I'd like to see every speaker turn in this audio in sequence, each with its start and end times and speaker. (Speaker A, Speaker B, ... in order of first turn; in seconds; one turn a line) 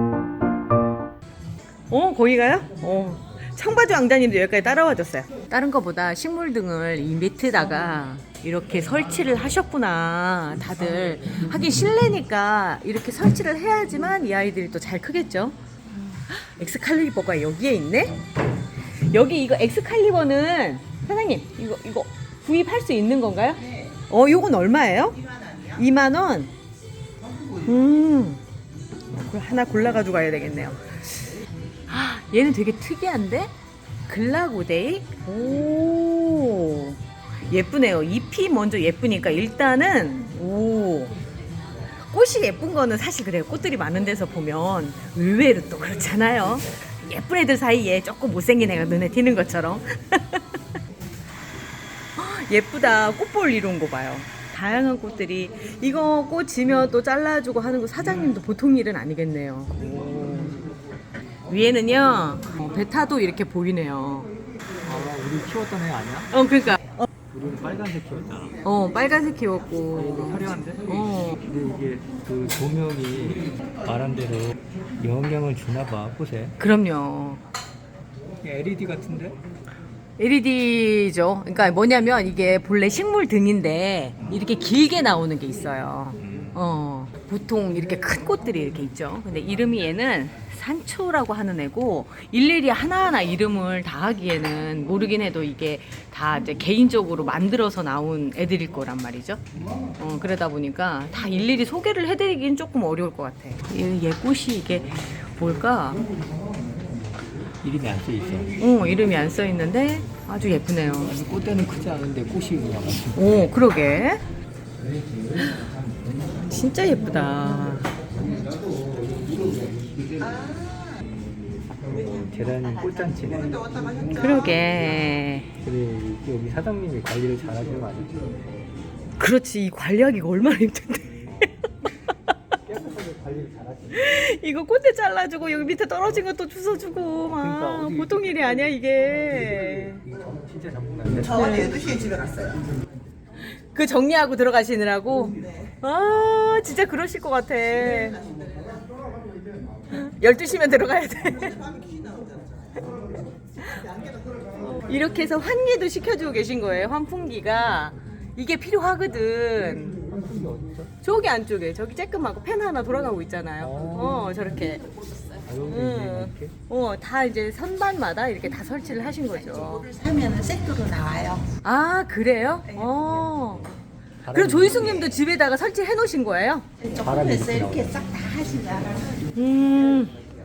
Speaker A: 1.9-15.6
Speaker A: 16.1-18.2
Speaker A: 19.0-26.5
Speaker A: 27.6-28.4
Speaker A: 29.1-31.3
Speaker A: 31.9-33.5
Speaker A: 34.1-41.1
Speaker A: 42.1-50.6
Speaker A: 52.1-60.6
Speaker A: 61.5-64.3
Speaker B: 64.8-66.3
Speaker A: 66.3-67.1
Speaker B: 67.3-68.6
Speaker A: 68.6-71.4
Speaker B: 70.0-76.6
Speaker A: 76.6-77.4
Speaker B: 78.4-79.4
Speaker A: 80.2-99.4
Speaker B: 86.2-86.6
Speaker A: 100.0-106.0
Speaker B: 107.6-108.6
Speaker A: 108.6-111.2
Speaker B: 111.1-113.6
Speaker A: 113.1-114.2
Speaker A: 116.5-117.9
Speaker B: 119.3-120.5
Speaker B: 121.7-123.8
Speaker C: 123.7-124.2
Speaker A: 124.1-125.5
Speaker B: 125.6-128.3
Speaker A: 129.2-131.5
Speaker B: 132.6-134.1
Speaker A: 133.9-140.1
Speaker B: 137.3-138.4
Speaker B: 140.1-142.1
Speaker C: 141.5-142.5
Speaker A: 143.6-148.2
Speaker C: 148.3-148.7
Speaker A: 149.9-151.7
Speaker C: 151.7-152.5
Speaker A: 153.6-153.8
Speaker A: 154.6-160.0
Speaker B: 160.0-160.9
Speaker A: 161.0-164.8
Speaker B: 163.6-164.3
Speaker B: 165.4-166.5
Speaker A: 165.7-169.9
Speaker C: 169.9-171.4
Speaker A: 171.6-173.7
Speaker B: 173.0-173.6
Speaker B: 174.2-175.0
Speaker A: 174.3-176.7
Speaker B: 176.9-178.2
Speaker C: 178.1-179.2
Speaker A: 179.3-180.1